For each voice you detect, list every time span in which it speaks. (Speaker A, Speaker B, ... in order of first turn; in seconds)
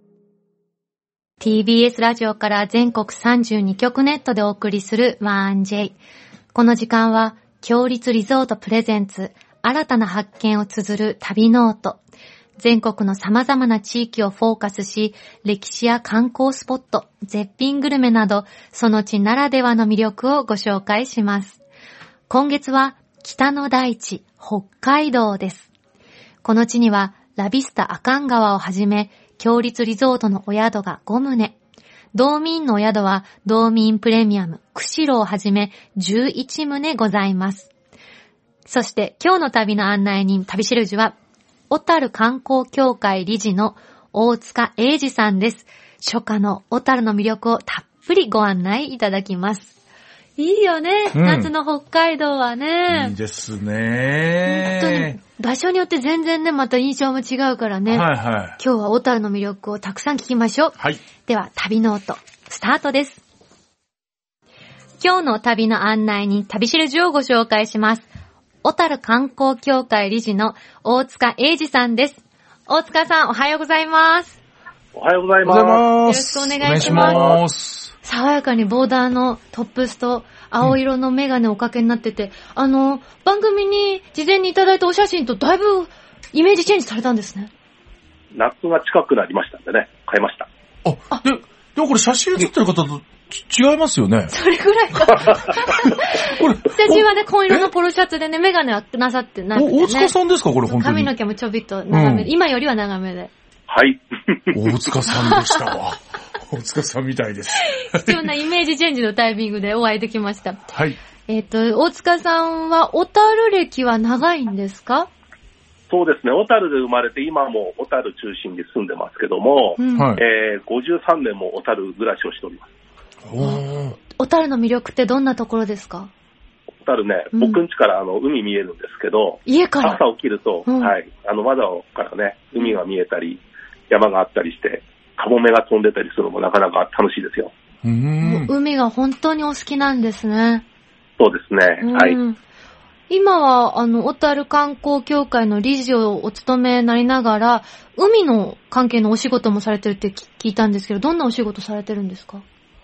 Speaker A: 1.4-6.0, 6.5-12.0, 12.6-21.6, 22.3-25.7, 26.4-31.6, 32.1-37.7, 38.7-41.2, 41.7-49.7, 50.4-53.1, 54.4-63.2, 65.0-68.1, 68.6-74.4, 76.0-77.2, 78.0-87.5, 94.3-100.1, 100.7-103.3, 105.1-105.6, 107.6-110.7, 111.3-115.1, 119.8-120.2, 124.2-126.1, 127.3-127.6, 129.5-130.0, 130.7-130.9, 138.2-140.6, 141.8-142.4, 143.1-152.4
Speaker B: 51.1-51.5, 52.9-55.2, 57.9-58.6, 75.4-77.9, 90.8-94.3, 94.9-97.7, 99.5-101.1, 101.9-102.3, 104.5-108.2, 110.7-111.0, 119.9-120.2, 123.2-124.0, 137.8-138.5
Speaker C: 74.9-75.9, 76.7-77.4, 88.3-90.5, 103.7-104.7, 115.9-122.7, 126.8-137.5, 141.2-142.2